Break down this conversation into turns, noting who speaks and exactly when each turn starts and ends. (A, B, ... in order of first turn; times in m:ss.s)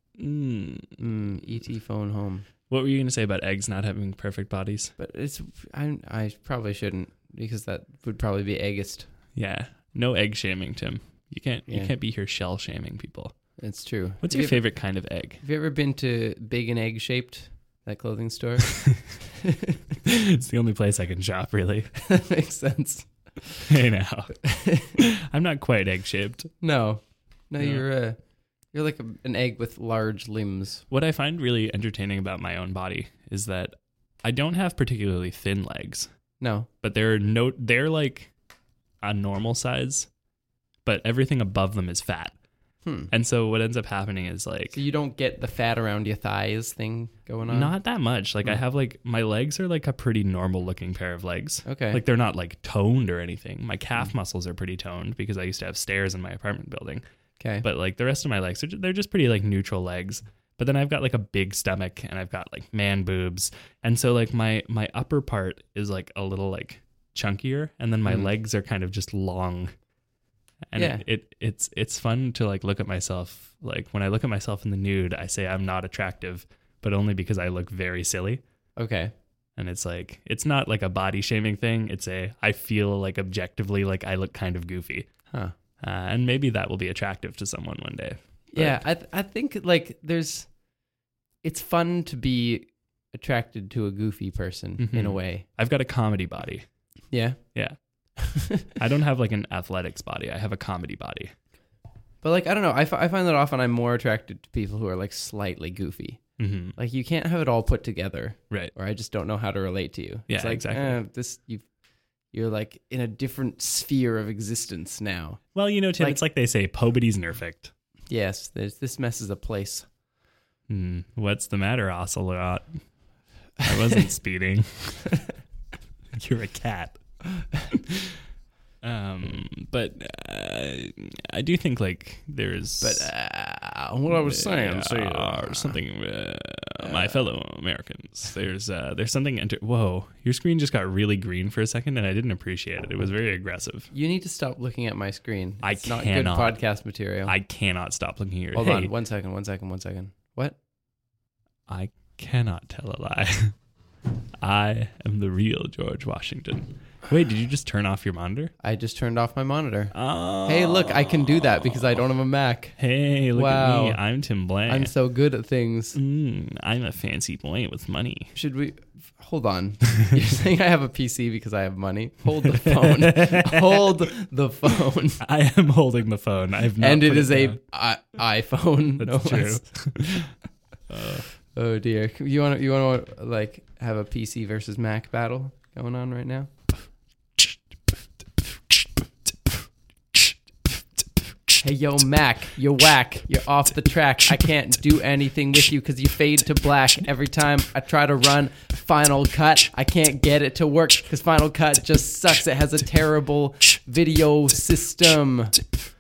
0:00.2-0:01.0 A
0:01.0-0:02.4 B
0:02.7-0:04.9 A
0:05.0-0:09.1 B
0:09.3-0:13.4 A
0:13.6-0:19.8 B
0:14.2-0:15.4 A
0:20.0-0:21.9 A
0:22.0-0:23.6 B
0:23.7-0:26.5 A
0:24.4-0:24.9 B
0:26.6-0:28.2 B
0:27.6-0:27.8 A
0:28.7-0:30.8 B
0:30.9-0:36.1 A
0:36.4-0:36.7 B
0:36.8-0:38.3 A
0:39.0-0:40.1 A
0:40.8-0:42.4 A
0:42.8-0:43.1 B
0:43.1-0:44.8 A
0:44.7-0:47.7 B
0:47.5-0:57.0 A
0:51.6-0:52.0 B
0:57.4-0:57.6 B
0:57.6-1:09.7 A
1:08.0-1:08.3 B
1:10.7-1:18.4 A
1:10.7-1:11.0 B
1:18.8-1:19.1 B
1:19.6-1:25.1 A
1:25.8-1:28.8 A
1:28.5-1:30.5 B
1:31.4-1:35.4 B
1:34.8-1:36.6 A
1:37.1-1:37.4 B
1:38.2-1:38.7 B
1:38.7-1:41.3 A
1:42.2-1:51.7 B
1:46.4-1:46.8 A
1:50.3-1:51.0 A
1:52.3-1:56.2 B
1:55.5-1:57.7 A
1:58.1-1:59.9 B
2:00.7-2:02.8 A
2:03.6-2:05.2 A
2:06.1-2:07.0 A
2:07.7-2:08.1 A
2:08.8-2:13.1 A
2:12.8-2:15.8 B
2:14.1-2:23.9 A
2:16.8-2:17.3 B
2:23.9-2:27.3 B
2:25.6-2:26.6 A
2:27.2-2:28.9 A
2:28.5-2:30.6 B
2:31.7-2:33.6 A
2:34.4-2:38.5 A
2:38.6-2:42.8 B
2:39.9-2:41.4 A
2:42.8-2:44.9 A
2:43.3-2:44.0 B
2:44.7-2:46.0 B
2:45.9-2:48.3 A
2:48.3-2:55.2 B
2:52.6-2:53.6 A
2:55.2-2:57.6 A
2:56.8-2:59.8 B
2:59.0-3:00.3 A
3:00.9-3:01.2 A
3:01.4-3:06.5 B
3:11.6-3:25.6 B